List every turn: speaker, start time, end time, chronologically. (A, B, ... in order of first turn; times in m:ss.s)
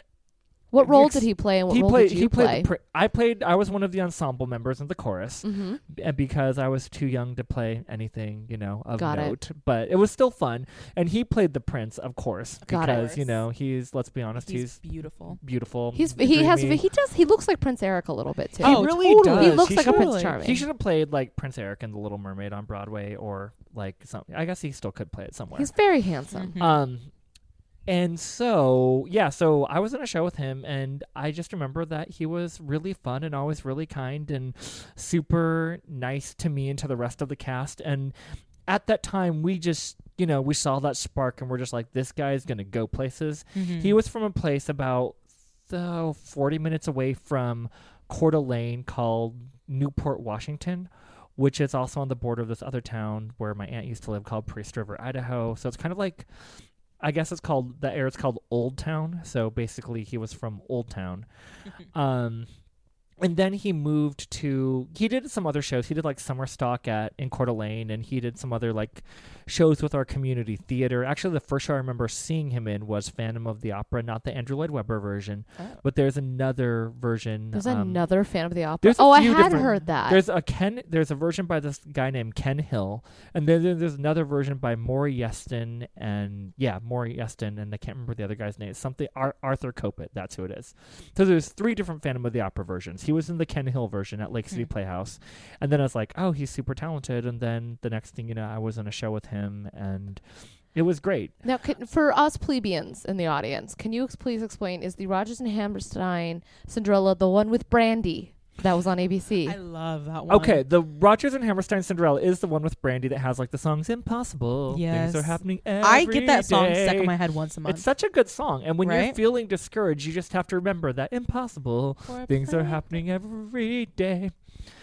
0:00.7-0:02.7 A
0:00.8-0:14.8 B
0:05.4-0:05.8 A
0:09.0-0:09.4 A
0:12.7-0:13.1 A
0:12.7-0:13.4 C
0:14.4-0:15.4 C
0:15.4-0:16.8 B
0:15.9-0:20.6 A
0:18.6-0:20.4 C
0:18.6-0:25.7 B
0:25.6-0:26.5 A
0:26.3-0:26.8 C
0:26.6-0:27.1 B
0:27.9-0:38.2 B
0:38.7-0:56.3 B
0:43.6-0:44.0 C
0:57.0-1:01.3 B
1:01.9-1:02.5 B
1:03.2-1:18.0 B
1:17.5-1:20.2 A
1:18.8-1:40.2 B
1:40.7-1:41.3 B
1:41.4-1:49.6 A
1:49.4-1:50.6 C
1:50.3-1:57.1 B
1:54.7-1:57.9 C
1:57.7-2:04.4 B
1:58.8-1:59.2 C
2:02.1-2:02.9 C